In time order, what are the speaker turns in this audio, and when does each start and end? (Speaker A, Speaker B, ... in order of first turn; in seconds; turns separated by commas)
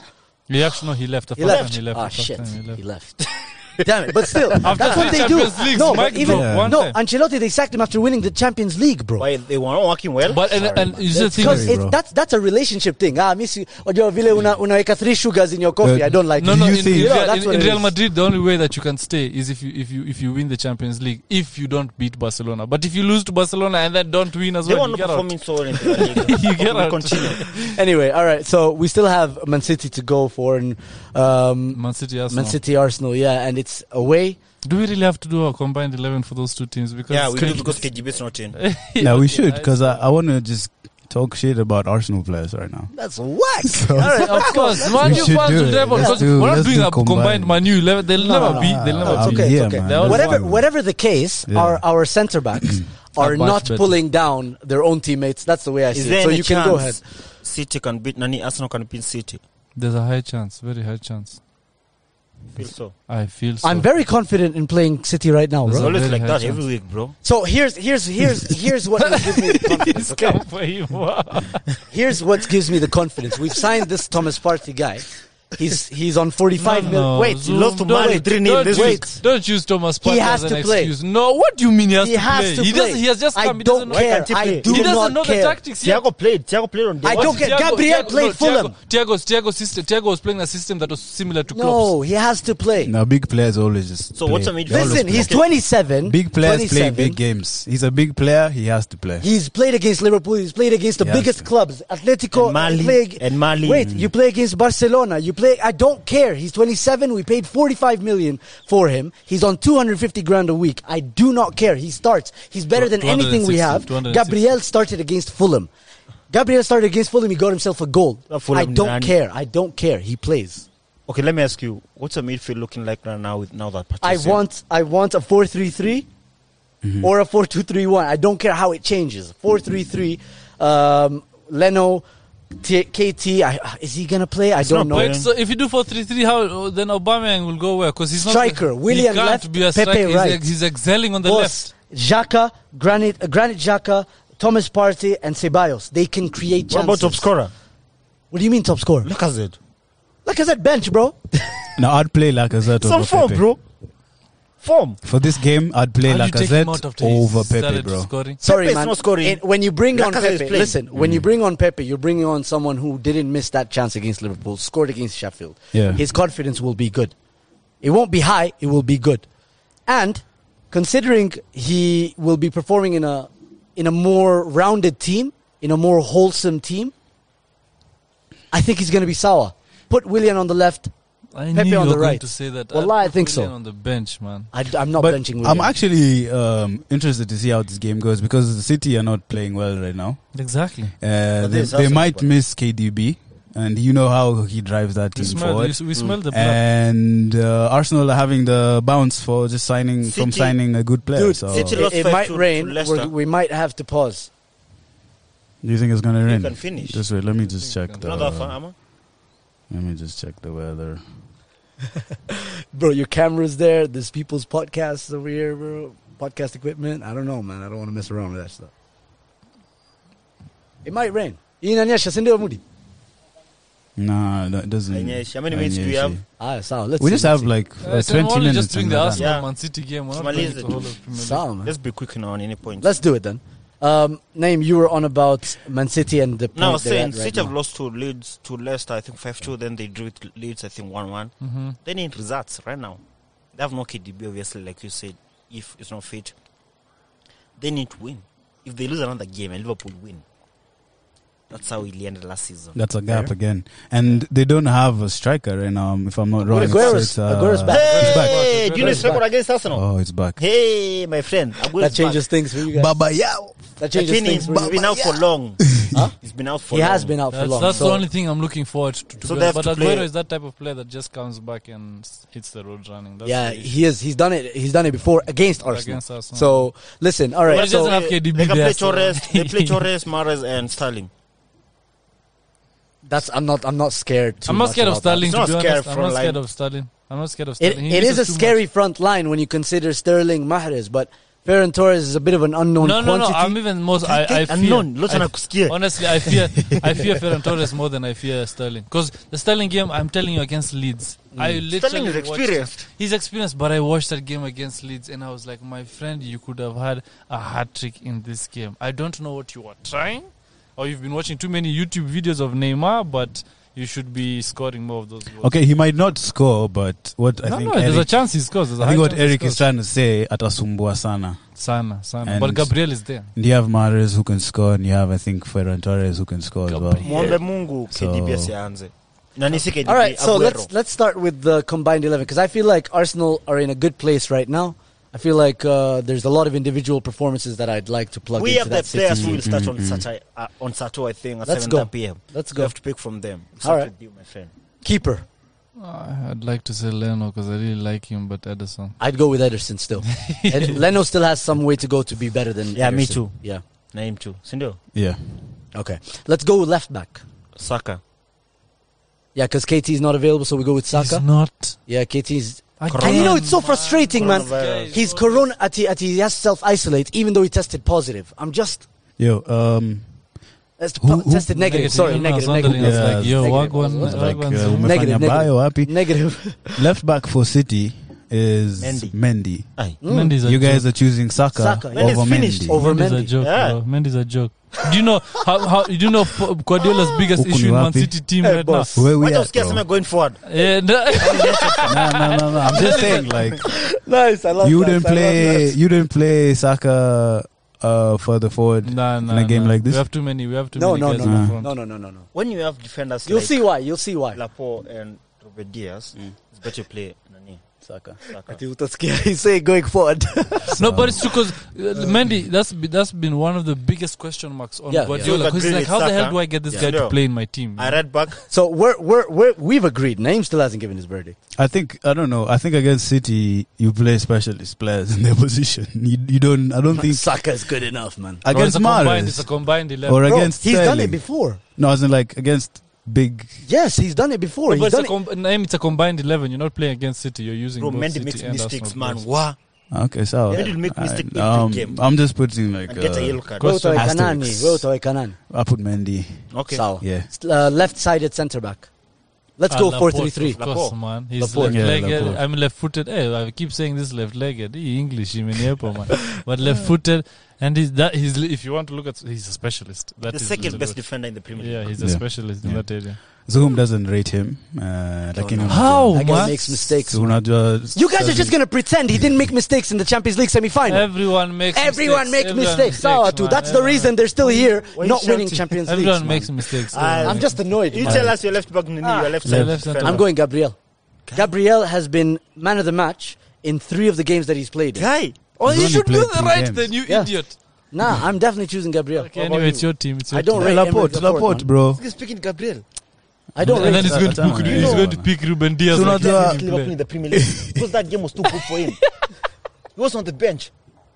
Speaker A: 0.5-2.8, Speaker B: 1.4-9.3, Speaker C: 1.4-1.8, Speaker A: 4.6-7.0, Speaker C: 4.8-6.0, Speaker D: 6.2-6.8, Speaker C: 9.2-11.1, Speaker A: 10.2-11.7, Speaker B: 11.1-17.9, Speaker D: 11.4-12.0, Speaker D: 15.8-17.2, Speaker A: 16.4-27.8, Speaker C: 24.6-27.5, Speaker B: 27.6-34.4, Speaker A: 31.8-32.6, Speaker A: 34.6-38.0, Speaker C: 37.1-38.6, Speaker A: 38.5-40.0, Speaker D: 39.0-42.9, Speaker B: 42.9-46.3, Speaker D: 43.6-47.8, Speaker A: 44.0-50.4, Speaker B: 48.2-57.0, Speaker D: 48.4-50.7, Speaker D: 51.5-51.8, Speaker A: 53.2-54.0, Speaker C: 55.9-59.4, Speaker A: 59.8-61.4, Speaker C: 62.6-63.0, Speaker A: 63.1-63.9, Speaker B: 63.6-65.9, Speaker A: 65.7-66.6, Speaker C: 65.8-67.2, Speaker B: 67.2-70.4, Speaker A: 69.0-71.8, Speaker B: 71.9-77.4, Speaker A: 76.6-86.0, Speaker C: 77.4-79.1, Speaker B: 78.0-79.2, Speaker B: 80.0-80.9, Speaker B: 82.0-85.6, Speaker C: 83.9-85.1, Speaker C: 85.8-87.5, Speaker B: 87.0-88.7, Speaker A: 87.1-91.9, Speaker B: 91.5-92.9, Speaker D: 92.8-95.4, Speaker C: 94.2-95.4, Speaker B: 94.7-97.2, Speaker D: 96.0-99.3, Speaker B: 99.2-115.7, Speaker D: 101.0-101.5, Speaker C: 102.3-103.9, Speaker A: 112.8-114.5, Speaker B: 116.3-120.7, Speaker C: 118.3-119.1, Speaker C: 121.1-124.4, Speaker B: 124.0-126.1, Speaker D: 126.8-127.1, Speaker B: 127.0-132.1, Speaker B: 132.6-135.1, Speaker C: 134.6-135.3, Speaker A: 134.9-141.7, Speaker B: 138.2-140.5, Speaker B: 141.2-147.3, Speaker C: 146.7-147.5, Speaker B: 148.3-149.1, Speaker C: 149.0-149.6, Speaker B: 150.2-151.6, Speaker D: 151.8-153.4, Speaker C: 152.8-153.6, Speaker C: 154.6-155.0, Speaker D: 155.0-158.1, Speaker A: 156.0-158.4, Speaker B: 158.4-167.1, Speaker C: 158.4-159.4, Speaker C: 159.9-160.8, Speaker D: 160.9-161.3, Speaker D: 165.7-166.0, Speaker B: 167.8-169.3, Speaker B: 169.9-176.9, Speaker B: 178.5-180.9, Speaker A: 181.3-184.5, Speaker B: 181.5-183.5, Speaker B: 184.5-185.7, Speaker D: 185.0-190.4, Speaker A: 190.3-190.9, Speaker D: 191.0-201.8, Speaker C: 191.4-192.3, Speaker A: 195.2-196.6, Speaker C: 200.0-200.6, Speaker B: 201.1-204.3, Speaker C: 201.5-203.1, Speaker D: 205.6-208.6, Speaker C: 206.3-207.1, Speaker A: 207.4-208.2, Speaker C: 208.0-208.7, Speaker D: 209.7-211.0, Speaker B: 212.3-218.7, Speaker B: 220.8-222.6, Speaker D: 224.0-226.2, Speaker C: 224.9-226.2, Speaker B: 226.4-227.5, Speaker D: 227.0-229.3, Speaker A: 227.8-231.4, Speaker C: 229.2-229.5, Speaker C: 230.1-231.0, Speaker B: 231.1-231.7, Speaker C: 231.6-232.9, Speaker B: 232.8-237.5, Speaker C: 236.6-243.0, Speaker A: 241.4-241.8, Speaker C: 243.6-246.3, Speaker C: 247.6-250.2, Speaker C: 251.5-252.8, Speaker D: 252.8-258.4, Speaker C: 256.5-257.1, Speaker B: 256.5-259.2, Speaker C: 257.7-262.2, Speaker A: 257.7-259.2, Speaker D: 259.7-260.4, Speaker B: 261.8-263.0, Speaker D: 262.7-263.6, Speaker B: 263.8-264.9, Speaker C: 263.9-267.9, Speaker D: 264.5-265.9, Speaker B: 266.7-268.1, Speaker A: 267.3-273.7, Speaker C: 269.2-270.1, Speaker B: 273.2-278.0, Speaker A: 275.6-276.7, Speaker C: 277.4-281.1, Speaker A: 277.5-279.8, Speaker B: 283.1-285.4, Speaker A: 284.5-288.6, Speaker C: 285.2-286.4, Speaker B: 287.6-293.6, Speaker A: 292.8-315.5, Speaker C: 294.1-296.4, Speaker B: 301.4-301.6, Speaker C: 301.7-302.9, Speaker D: 315.4-321.4, Speaker A: 317.4-319.6, Speaker A: 321.6-323.3, Speaker D: 322.2-327.1, Speaker A: 326.7-327.4, Speaker C: 327.0-330.7, Speaker D: 327.9-328.5, Speaker B: 329.9-339.4, Speaker C: 338.4-344.5, Speaker D: 339.1-340.1, Speaker B: 341.4-342.7, Speaker B: 343.6-343.9, Speaker B: 344.8-345.2, Speaker A: 345.8-349.0, Speaker B: 349.0-353.6, Speaker A: 350.3-350.7, Speaker C: 352.8-354.8, Speaker D: 354.9-355.2, Speaker B: 355.7-357.2, Speaker C: 357.6-358.0, Speaker B: 359.4-368.9, Speaker A: 360.9-361.8, Speaker A: 362.8-365.5, Speaker C: 362.9-363.6, Speaker C: 364.1-365.0, Speaker D: 369.2-370.1, Speaker B: 370.8-376.9, Speaker D: 371.0-371.6, Speaker A: 371.6-375.3, Speaker D: 372.6-375.9, Speaker D: 376.7-379.8, Speaker C: 378.8-379.2, Speaker B: 380.0-380.4, Speaker A: 380.1-380.9, Speaker D: 380.4-382.8, Speaker B: 381.5-383.3, Speaker C: 381.9-382.8, Speaker A: 382.8-388.9, Speaker C: 383.4-383.8, Speaker D: 387.4-388.1, Speaker B: 388.4-389.1, Speaker D: 388.9-389.8, Speaker C: 389.2-390.4, Speaker A: 390.4-393.3, Speaker C: 391.1-391.9, Speaker D: 391.9-393.7, Speaker B: 392.9-395.7, Speaker D: 394.6-400.0, Speaker A: 398.8-401.7, Speaker B: 400.8-402.3, Speaker D: 401.2-401.6, Speaker C: 402.3-403.7, Speaker B: 403.3-404.4, Speaker C: 404.3-407.6, Speaker D: 407.8-408.2, Speaker C: 408.2-408.6, Speaker B: 408.5-410.8, Speaker A: 410.8-418.0, Speaker D: 410.8-411.3, Speaker B: 414.9-415.4, Speaker C: 415.2-418.4, Speaker B: 418.5-421.4, Speaker D: 421.6-427.4, Speaker B: 426.9-428.4, Speaker D: 428.4-433.6, Speaker A: 428.5-430.3, Speaker B: 430.2-431.6, Speaker B: 433.6-435.1, Speaker A: 434.7-439.2, Speaker C: 437.8-439.6, Speaker D: 439.9-444.9, Speaker C: 440.5-442.1, Speaker C: 442.9-444.1, Speaker B: 443.6-445.4, Speaker D: 445.5-447.3, Speaker C: 446.5-446.8, Speaker B: 446.7-448.9, Speaker B: 449.6-450.6, Speaker A: 449.7-463.2, Speaker C: 450.6-451.0, Speaker B: 451.4-451.9, Speaker D: 451.6-452.4, Speaker C: 460.3-461.9, Speaker D: 462.0-468.6, Speaker C: 465.3-466.0, Speaker A: 465.7-466.9, Speaker B: 466.1-476.5, Speaker A: 470.9-474.2, Speaker C: 474.4-475.8, Speaker A: 475.9-478.2, Speaker C: 476.9-480.3, Speaker B: 477.2-478.4, Speaker B: 479.0-479.4, Speaker D: 479.4-479.8, Speaker A: 479.4-480.2, Speaker B: 480.0-480.8, Speaker B: 481.3-485.1, Speaker C: 484.9-485.4, Speaker A: 485.6-487.6, Speaker D: 485.6-486.9, Speaker B: 487.1-489.3, Speaker A: 489.2-490.8, Speaker C: 489.4-489.9, Speaker B: 490.3-491.7, Speaker D: 490.6-492.0, Speaker C: 492.0-492.8, Speaker B: 493.6-494.5, Speaker D: 493.6-496.6, Speaker A: 493.7-496.9, Speaker C: 494.6-495.1, Speaker C: 495.9-499.2, Speaker D: 497.3-497.8, Speaker C: 499.9-500.7